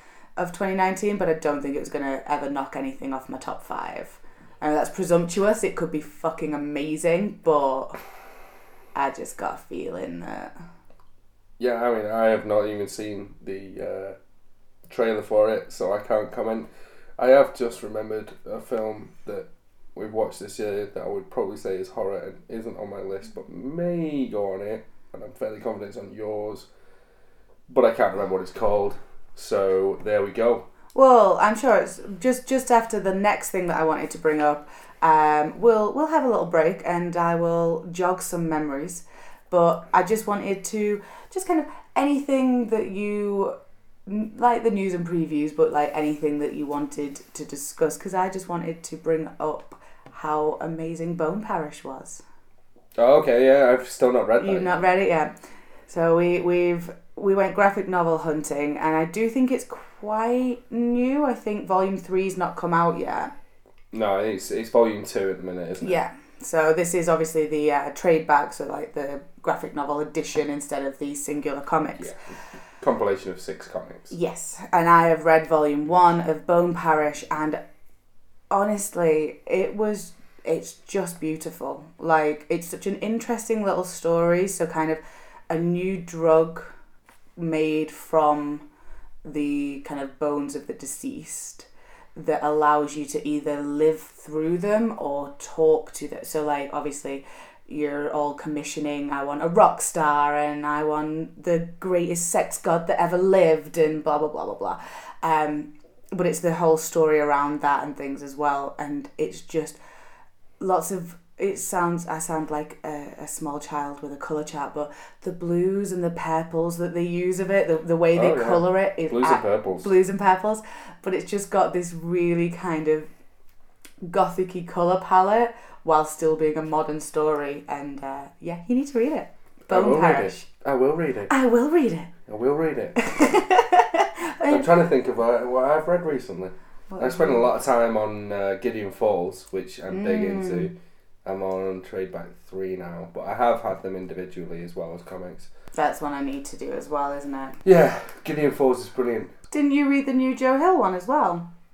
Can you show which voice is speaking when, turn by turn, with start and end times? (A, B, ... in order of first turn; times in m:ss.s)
0:00.4-0:08.0 A
0:09.0-0:10.5 A
0:11.6-0:14.2 B
0:14.9-0:26.7 B
0:27.7-0:30.7 B
0:30.9-0:52.2 A
0:53.0-0:54.8 B
0:54.4-0:55.3 A
0:55.9-1:03.3 A
1:03.9-1:06.0 B
1:05.8-1:12.1 A
1:12.8-1:14.1 B
1:14.1-1:17.6 A
1:18.5-1:26.7 A
1:27.4-1:28.6 A
1:29.2-1:49.8 A
1:50.6-2:03.1 A
1:58.1-1:59.9 B
2:04.0-2:10.5 A
2:09.7-2:11.3 B
2:11.3-2:12.1 A
2:12.3-2:13.0 B
2:13.0-2:14.7 A
2:14.5-2:20.7 B
2:16.9-2:17.5 A
2:19.9-2:20.7 A
2:21.2-2:25.5 B
2:25.8-2:27.6 A
2:27.6-2:29.3 B
2:29.5-2:31.5 A